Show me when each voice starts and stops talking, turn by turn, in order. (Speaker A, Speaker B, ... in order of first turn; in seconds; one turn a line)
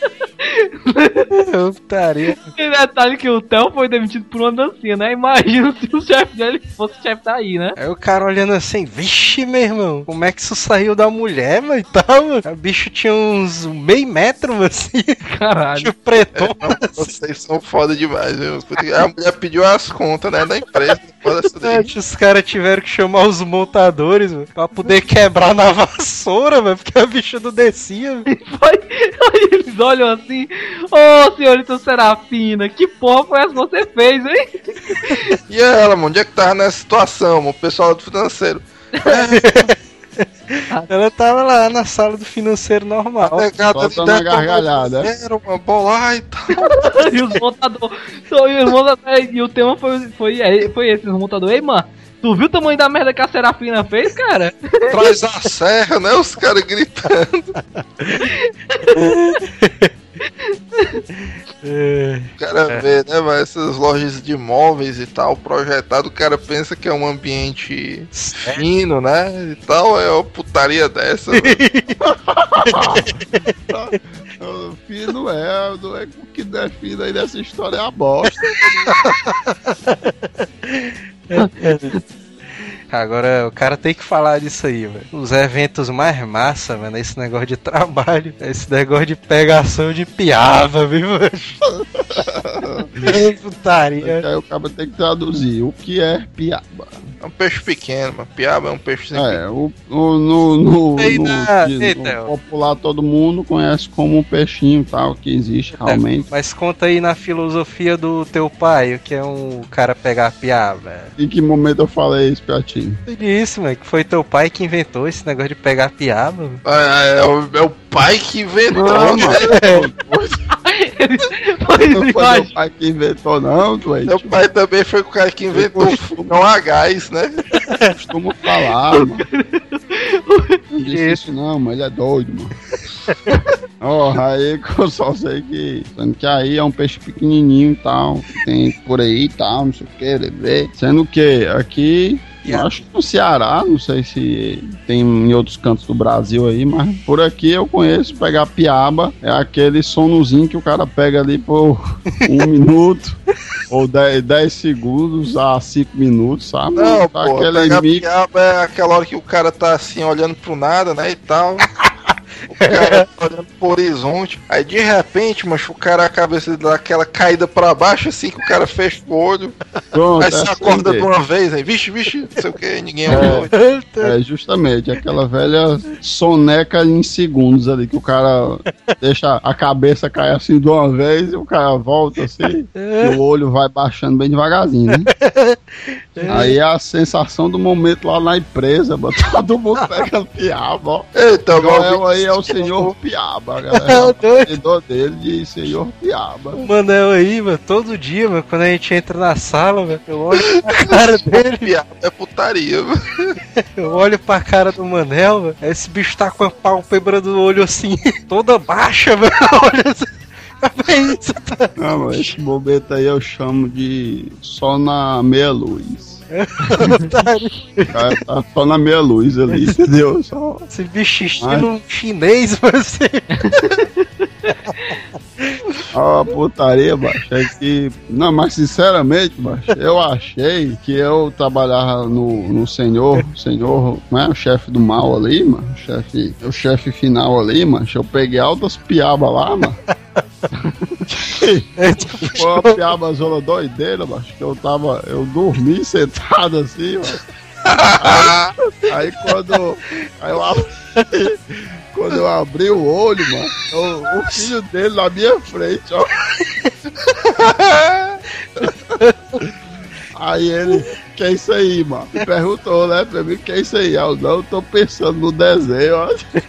Speaker A: 0.4-1.3
Speaker B: 1.3-2.5
Speaker A: 2.5-7.8
Speaker B: 7.8-15.2
Speaker A: 15.2-15.9
Speaker B: 15.8-17.1
Speaker C: 16.3-21.9
Speaker B: 21.6-28.3
Speaker A: 28.3-35.3
Speaker C: 35.5-39.7
Speaker A: 38.9-39.3
Speaker B: 39.3-43.5
Speaker C: 43.2-47.1
Speaker D: 43.7-45.1
Speaker A: 46.7-55.0
Speaker C: 54.9-57.5
Speaker A: 58.2-59.4
Speaker B: 58.9-59.9
Speaker A: 60.5-61.0
Speaker B: 61.1-62.8
Speaker C: 62.4-71.6
Speaker B: 68.1-68.6
Speaker B: 71.3-72.0
Speaker D: 72.0-73.1
Speaker B: 72.6-73.4
Speaker D: 73.7-78.6
Speaker B: 79.0-82.0
Speaker A: 81.4-82.0
Speaker B: 82.9-91.6
Speaker D: 91.7-93.2
Speaker B: 92.6-94.2
Speaker D: 94.0-97.1
Speaker C: 97.2-99.4
Speaker D: 99.1-106.3
Speaker B: 101.0-102.3
Speaker B: 105.7-111.1
Speaker D: 111.2-113.0
Speaker B: 113.1-116.6
Speaker C: 116.6-119.5
Speaker D: 118.7-120.4
Speaker B: 118.9-119.9
Speaker A: 120.6-122.5
Speaker D: 121.9-124.4
Speaker C: 124.0-127.4
Speaker D: 125.5-126.3
Speaker D: 127.9-129.2
Speaker A: 128.9-130.6
Speaker D: 130.7-132.5
Speaker B: 130.8-131.2
Speaker D: 133.8-153.2
Speaker D: 153.7-158.0
Speaker C: 156.8-161.7
Speaker C: 162.5-169.6
Speaker B: 162.6-163.0
Speaker D: 169.9-171.1
Speaker C: 170.2-173.5
Speaker B: 173.1-174.2
Speaker D: 173.1-185.1
Speaker B: 182.7-183.2
Speaker B: 185.1-186.6
Speaker D: 186.2-196.7
Speaker B: 189.7-190.1
Speaker C: 191.1-192.7
Speaker B: 193.7-194.6
Speaker B: 196.6-201.7
Speaker C: 200.3-203.3
Speaker B: 203.6-211.7
Speaker D: 211.8-216.2
Speaker B: 216.3-218.2
Speaker D: 217.9-220.7
Speaker B: 219.5-219.8
Speaker B: 220.7-223.8
Speaker D: 221.4-221.7
Speaker A: 223.4-223.8
Speaker B: 224.5-225.6
Speaker D: 225.9-239.8
Speaker D: 241.1-247.2
Speaker B: 241.8-242.8
Speaker C: 247.7-248.5
Speaker D: 248.0-251.4
Speaker D: 251.9-256.2
Speaker C: 257.1-258.2
Speaker B: 258.5-259.5
Speaker D: 260.1-266.2